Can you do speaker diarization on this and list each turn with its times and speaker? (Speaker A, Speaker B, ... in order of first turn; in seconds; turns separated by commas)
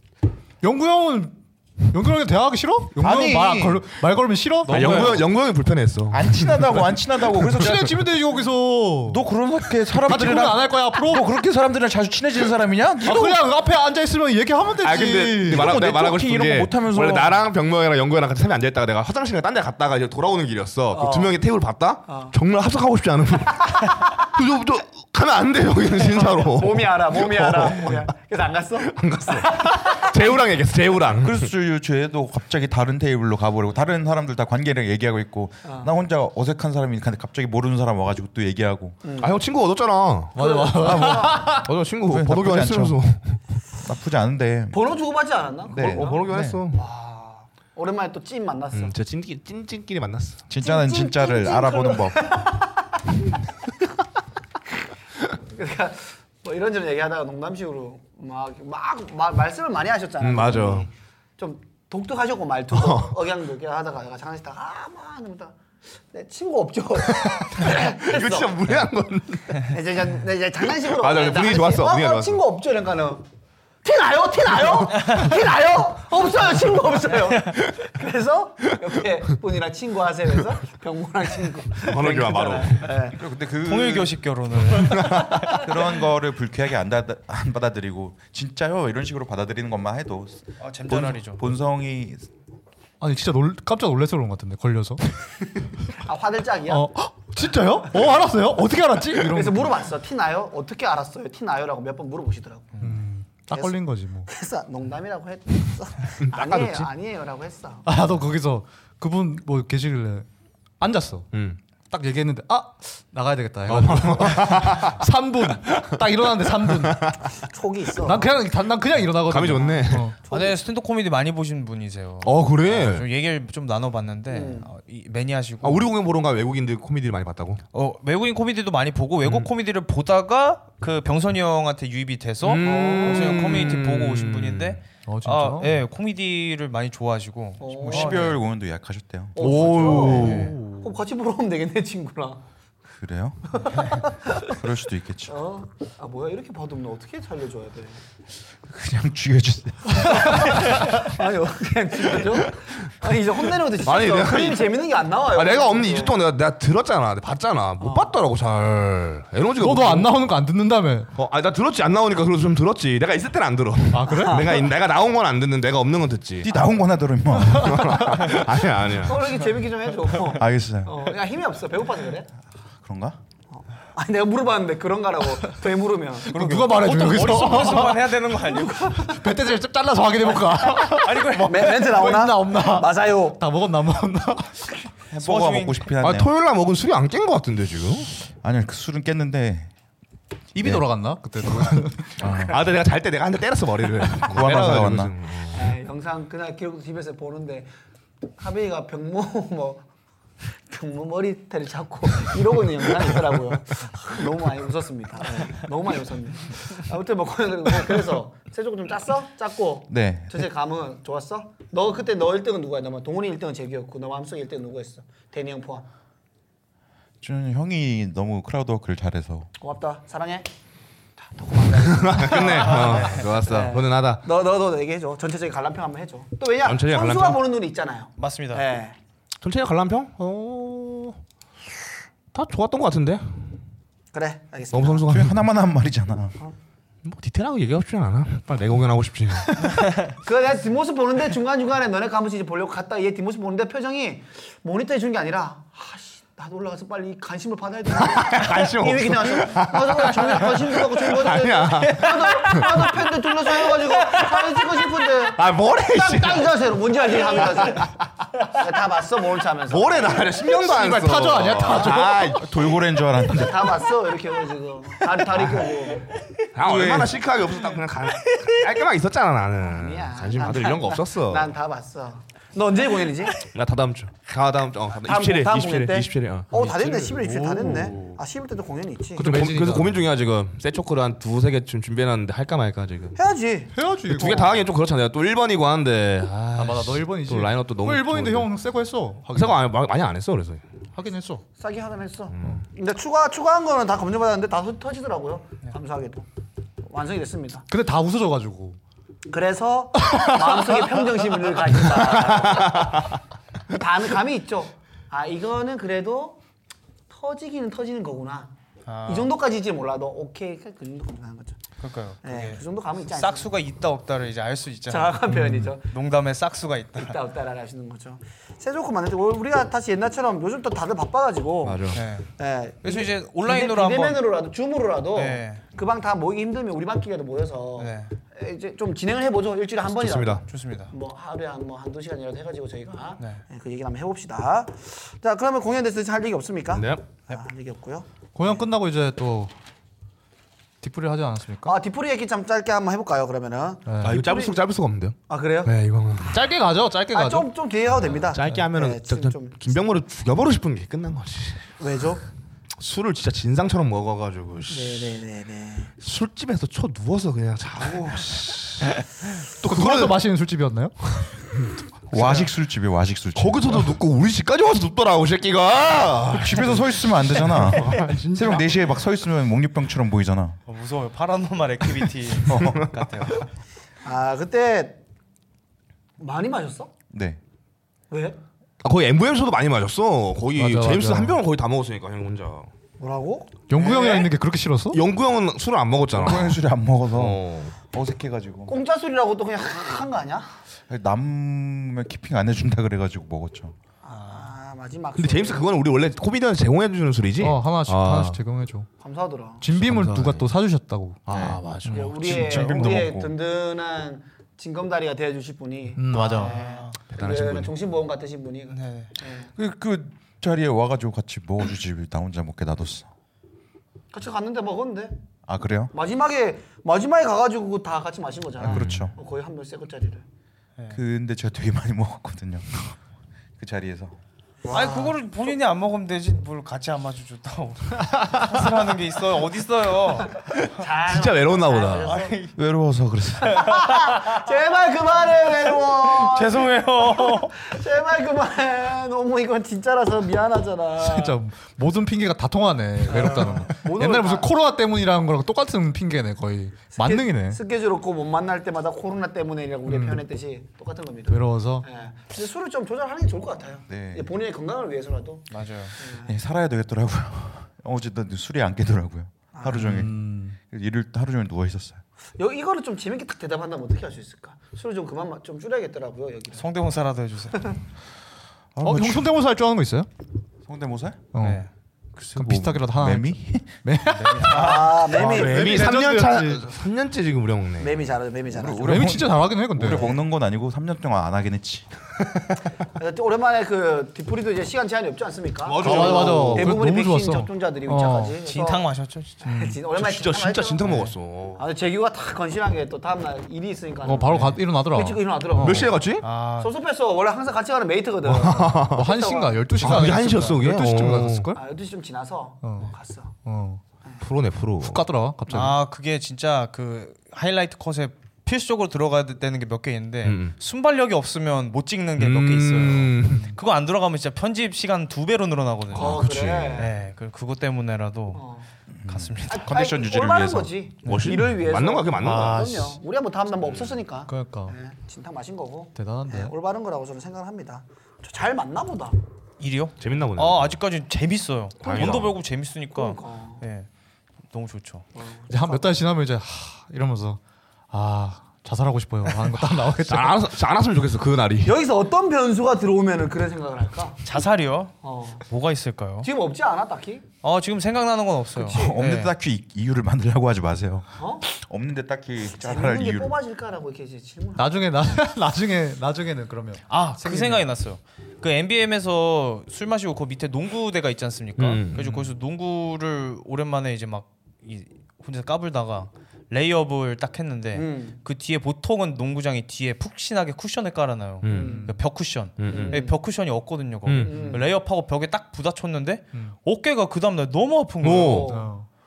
Speaker A: 0.6-5.2, Speaker B: 3.0-3.8, Speaker B: 4.7-5.2, Speaker C: 4.7-7.9, Speaker B: 6.1-8.0, Speaker A: 7.4-9.2, Speaker B: 9.1-13.4, Speaker A: 10.0-11.3, Speaker A: 13.0-15.8, Speaker C: 14.8-28.0, Speaker B: 15.4-17.4, Speaker D: 20.9-21.4, Speaker D: 22.1-22.3, Speaker D: 26.1-30.1, Speaker C: 28.8-31.5, Speaker B: 31.2-39.0, Speaker D: 35.6-35.9, Speaker D: 39.0-39.3, Speaker C: 39.2-40.4, Speaker A: 40.3-41.7, Speaker D: 40.4-41.5, Speaker B: 40.8-41.5, Speaker C: 41.6-43.4, Speaker B: 42.0-43.0, Speaker B: 43.8-44.8, Speaker D: 44.7-48.9, Speaker B: 45.6-46.6, Speaker C: 45.7-46.8, Speaker C: 48.7-50.4, Speaker B: 50.5-52.4, Speaker D: 50.6-52.9, Speaker D: 55.4-65.5, Speaker C: 60.2-60.9, Speaker C: 62.7-63.1, Speaker D: 66.1-68.6, Speaker C: 67.2-69.7, Speaker D: 69.5-73.2, Speaker C: 70.8-72.4, Speaker D: 73.8-83.2, Speaker E: 74.9-75.3, Speaker C: 81.8-83.0, Speaker B: 83.1-84.2, Speaker E: 83.6-85.7, Speaker C: 84.8-85.5, Speaker B: 85.4-92.2, Speaker E: 90.6-91.4, Speaker A: 93.0-95.0, Speaker D: 96.0-96.9, Speaker A: 96.7-99.9, Speaker D: 99.2-102.8, Speaker A: 102.8-104.3, Speaker D: 103.5-107.8, Speaker C: 106.2-106.9, Speaker A: 107.8-110.3, Speaker A: 110.8-111.3, Speaker C: 111.3-111.6, Speaker A: 111.9-117.0, Speaker C: 113.7-115.0, Speaker C: 116.6-117.2, Speaker D: 117.4-118.3, Speaker A: 118.0-120.2, Speaker C: 119.2-120.1, Speaker D: 119.5-120.6, Speaker E: 120.3-125.9, Speaker C: 122.2-123.1, Speaker D: 124.3-124.7, Speaker C: 125.6-127.6, Speaker E: 127.7-138.3, Speaker C: 132.4-134.8, Speaker D: 132.6-133.5, Speaker A: 135.1-135.8, Speaker D: 137.6-138.3, Speaker B: 137.9-140.0, Speaker D: 139.3-142.4, Speaker C: 139.4-140.6, Speaker A: 139.9-140.9, Speaker E: 140.1-140.5, Speaker B: 143.0-145.3, Speaker D: 143.5-144.6, Speaker D: 145.3-148.0, Speaker B: 148.7-150.9, Speaker D: 150.1-156.2, Speaker C: 153.7-160.2, Speaker D: 157.8-158.1, Speaker A: 159.6-161.1, Speaker C: 161.1-166.5, Speaker A: 163.9-164.6, Speaker D: 164.1-164.7, Speaker B: 166.4-168.2, Speaker C: 167.5-169.4, Speaker D: 168.9-172.3, Speaker B: 170.3-171.1, Speaker B: 172.8-173.2, Speaker D: 173.5-176.6, Speaker A: 176.3-178.1, Speaker E: 176.3-179.0, Speaker D: 178.3-179.2, Speaker A: 179.0-184.7, Speaker E: 180.8-181.9, Speaker D: 181.4-183.4, Speaker B: 185.1-186.3, Speaker E: 185.2-185.9, Speaker C: 186.0-188.1, Speaker B: 188.4-189.7, Speaker A: 190.5-192.3, Speaker B: 192.2-192.6, Speaker C: 192.5-195.8, Speaker B: 194.2-195.1, Speaker D: 195.5-197.7, Speaker D: 198.4-199.8, Speaker D: 200.6-215.9, Speaker B: 209.9-210.4, Speaker B: 217.2-219.5, Speaker D: 219.6-220.5, Speaker D: 221.2-228.9, Speaker C: 221.7-224.2, Speaker E: 222.3-223.2, Speaker C: 226.6-227.4, Speaker E: 228.2-228.6, Speaker C: 229.4-231.2, Speaker C: 232.3-233.5, Speaker D: 234.1-235.1, Speaker C: 234.7-235.4, Speaker B: 235.1-236.3, Speaker C: 237.0-239.9, Speaker D: 240.2-257.9, Speaker C: 247.9-252.9, Speaker E: 251.8-252.9, Speaker E: 253.7-254.9, Speaker C: 255.2-256.6, Speaker C: 257.3-257.9, Speaker D: 258.4-260.4, Speaker C: 259.7-262.5, Speaker A: 260.4-262.4, Speaker B: 262.2-263.8, Speaker D: 263.3-266.1, Speaker C: 265.3-265.7, Speaker C: 266.5-271.5, Speaker B: 266.6-267.1, Speaker E: 267.6-268.7, Speaker D: 269.6-273.4, Speaker C: 273.4-276.8, Speaker D: 275.0-279.3, Speaker A: 276.6-278.1, Speaker C: 277.6-277.9, Speaker C: 279.2-283.2, Speaker A: 279.2-280.1, Speaker D: 283.1-283.7, Speaker A: 283.7-284.6, Speaker C: 284.1-288.5, Speaker A: 286.5-289.6, Speaker C: 289.3-290.6, Speaker A: 290.9-291.4, Speaker D: 291.6-296.2, Speaker C: 292.3-292.6, Speaker D: 296.8-297.6, Speaker A: 297.7-298.8, Speaker D: 299.3-303.0, Speaker A: 300.1-300.5, Speaker C: 301.9-303.1, Speaker D: 303.7-306.4, Speaker D: 307.1-308.5, Speaker E: 308.9-309.3, Speaker D: 309.1-311.6, Speaker E: 311.8-315.2, Speaker D: 312.2-313.5, Speaker D: 314.9-315.9, Speaker C: 315.3-315.7, Speaker E: 315.9-317.2, Speaker D: 316.9-338.6, Speaker C: 321.6-322.0, Speaker E: 321.9-322.3, Speaker E: 322.8-324.2, Speaker E: 325.1-325.6, Speaker E: 327.8-328.1, Speaker C: 329.8-330.4, Speaker E: 330.4-330.9, Speaker C: 336.7-337.0, Speaker A: 338.3-339.5, Speaker A: 340.8-341.8, Speaker D: 341.6-344.6, Speaker A: 343.9-344.2, Speaker C: 344.0-346.4, Speaker D: 345.3-345.7, Speaker A: 346.3-347.5, Speaker D: 347.1-349.8, Speaker C: 348.0-351.7, Speaker D: 351.8-352.2, Speaker C: 352.8-355.2, Speaker D: 354.7-355.9, Speaker C: 356.0-360.2, Speaker A: 359.6-360.9, Speaker B: 362.1-363.9, Speaker E: 362.1-362.5, Speaker C: 363.4-368.7, Speaker B: 366.3-370.6, Speaker E: 370.7-373.5, Speaker B: 372.4-372.9, Speaker C: 372.5-372.9, Speaker D: 374.0-375.0, Speaker D: 376.2-376.9, Speaker B: 377.1-377.4, Speaker D: 378.1-378.4, Speaker C: 378.8-382.7, Speaker A: 380.5-381.4, Speaker D: 383.0-384.3, Speaker A: 383.7-385.0, Speaker C: 384.9-387.7, Speaker B: 386.1-388.7, Speaker D: 388.7-390.5, Speaker B: 390.9-393.7, Speaker D: 394.0-395.7, Speaker E: 394.1-394.5, Speaker C: 395.1-398.4, Speaker A: 397.4-398.9, Speaker D: 399.0-399.6, Speaker A: 399.6-402.6, Speaker C: 399.7-400.5, Speaker C: 401.2-402.1, Speaker B: 401.3-403.3, Speaker D: 401.9-409.5, Speaker A: 406.0-406.6, Speaker E: 406.3-407.0, Speaker C: 407.1-407.7, Speaker E: 408.7-409.1, Speaker B: 409.6-413.1, Speaker D: 414.1-415.1, Speaker B: 415.5-415.9, Speaker D: 415.9-420.2, Speaker B: 418.6-419.1, Speaker C: 418.6-419.1, Speaker B: 420.9-422.9, Speaker B: 423.6-424.1, Speaker D: 424.6-425.1, Speaker E: 424.7-430.6, Speaker D: 430.7-432.4, Speaker C: 430.9-432.2, Speaker E: 431.9-432.5, Speaker B: 432.5-433.8, Speaker D: 433.4-441.4, Speaker E: 433.5-434.4, Speaker E: 436.1-437.6, Speaker A: 441.0-447.6, Speaker D: 443.1-444.5, Speaker D: 446.9-456.3, Speaker A: 449.9-450.2, Speaker A: 451.3-451.9, Speaker B: 453.9-454.3, Speaker E: 455.5-456.0, Speaker B: 456.1-462.0, Speaker D: 459.5-459.9, Speaker A: 459.7-460.6, Speaker D: 462.4-466.6, Speaker E: 466.6-467.7, Speaker B: 468.7-469.3, Speaker A: 468.8-470.1, Speaker B: 470.7-471.3, Speaker A: 471.3-471.6, Speaker E: 471.4-471.7, Speaker B: 472.2-473.8, Speaker A: 472.3-476.6, Speaker E: 474.1-475.1, Speaker D: 474.4-475.9, Speaker C: 475.1-478.0, Speaker D: 477.8-479.0, Speaker B: 478.5-482.2, Speaker A: 478.8-480.1, Speaker D: 482.9-488.8, Speaker C: 485.6-486.8, Speaker A: 485.8-488.4, Speaker E: 488.4-489.4, Speaker D: 489.4-490.9, Speaker A: 489.4-489.8, Speaker C: 489.9-491.6, Speaker E: 490.8-491.1, Speaker D: 491.6-499.6, Speaker A: 494.0-495.9, Speaker C: 495.6-496.2, Speaker E: 496.2-496.7, Speaker C: 498.2-499.0, Speaker A: 498.9-501.6, Speaker C: 499.8-501.5, Speaker D: 501.5-503.3, Speaker A: 502.6-502.9, Speaker A: 503.4-503.8, Speaker C: 504.2-505.0, Speaker A: 504.8-505.8, Speaker E: 505.5-516.2, Speaker C: 510.2-510.5, Speaker C: 512.2-513.5, Speaker C: 515.9-516.9, Speaker D: 515.9-516.9, Speaker E: 516.8-518.4, Speaker D: 518.3-518.7, Speaker B: 519.0-520.7, Speaker E: 519.0-519.7, Speaker D: 519.5-529.1, Speaker E: 521.0-521.5, Speaker C: 521.0-522.7, Speaker E: 522.2-522.8, Speaker A: 524.3-524.8, Speaker A: 526.0-526.5, Speaker E: 529.6-533.9, Speaker C: 530.0-530.7, Speaker D: 531.8-532.3, Speaker C: 531.8-532.3, Speaker D: 532.9-533.6, Speaker E: 534.5-535.1, Speaker D: 535.1-535.9, Speaker A: 535.5-537.4, Speaker A: 537.9-540.4, Speaker E: 539.3-539.5, Speaker C: 540.0-541.8, Speaker D: 541.6-544.2, Speaker E: 544.2-546.3, Speaker D: 545.0-545.4, Speaker D: 546.2-547.2, Speaker E: 547.4-549.3, Speaker D: 548.6-548.9, Speaker B: 548.6-553.4, Speaker D: 551.2-551.5, Speaker D: 552.5-554.8, Speaker A: 554.6-557.6, Speaker E: 556.9-578.5, Speaker C: 561.6-562.3, Speaker D: 567.7-568.2, Speaker C: 571.4-571.9, Speaker D: 571.5-571.9, Speaker C: 572.6-573.0, Speaker D: 572.6-573.2, Speaker C: 574.0-574.3, Speaker D: 574.2-574.7, Speaker C: 578.0-578.5, Speaker D: 578.1-578.7, Speaker A: 578.5-578.9